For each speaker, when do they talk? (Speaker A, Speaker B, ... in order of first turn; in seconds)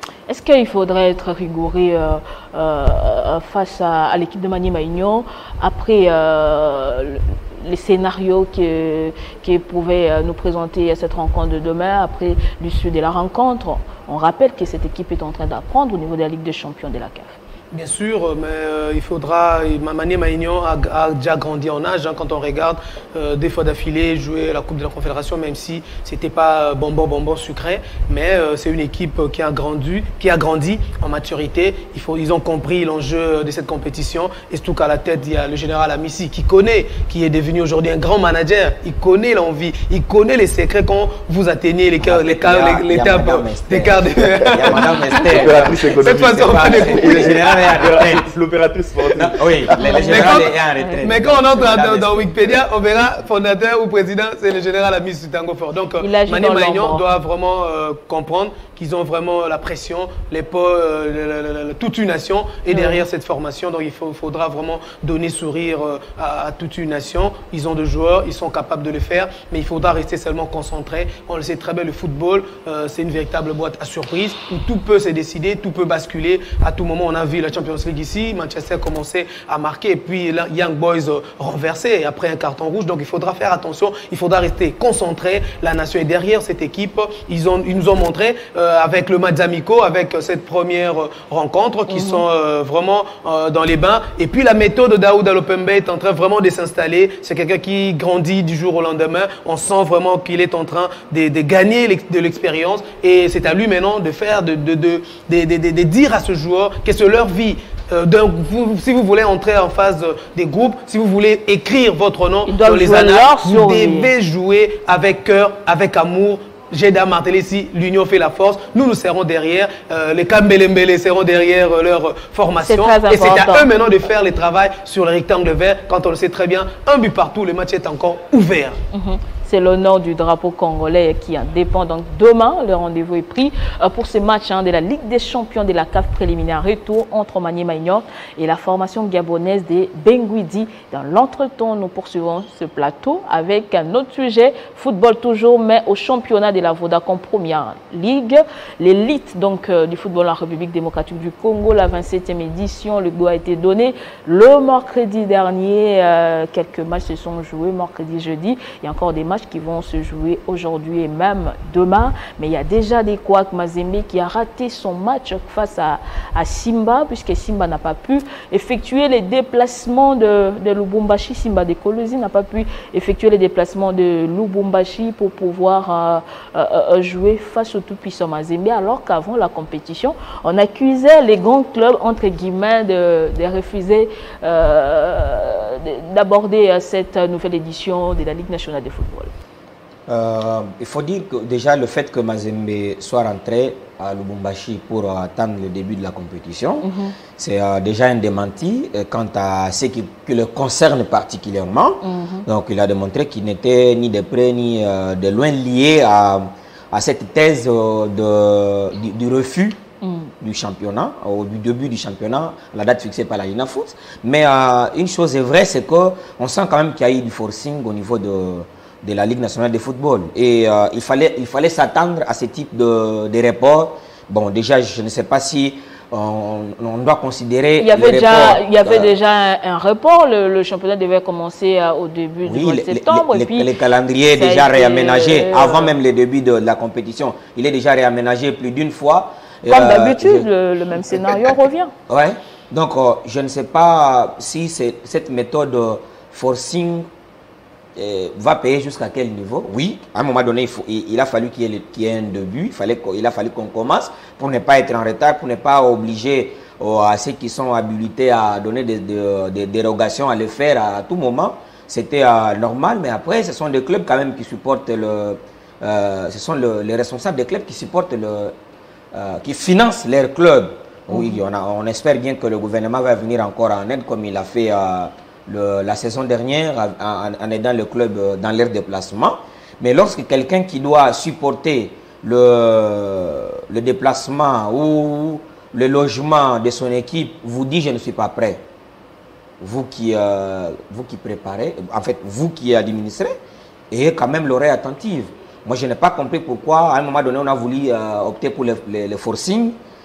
Speaker A: 0.3-17.4, 49.8-51.0, 56.0-57.0, 62.7-63.0, 91.9-92.2, 112.5-114.1, 122.6-123.7, 128.9-189.3, 196.8-197.1, 202.0-202.5, 210.0-210.3, 227.8-233.7, 234.3-235.9, 239.7-241.9, 271.1-271.4
Speaker B: 17.7-48.0, 49.8-128.8
Speaker C: 42.0-48.3, 49.1-52.6, 190.1-209.8, 210.4-229.1, 232.4-240.5, 242.1-247.1, 247.9-268.5, 269.1-288.6, 289.6-293.3, 293.9-299.8
Speaker D: 45.3-49.7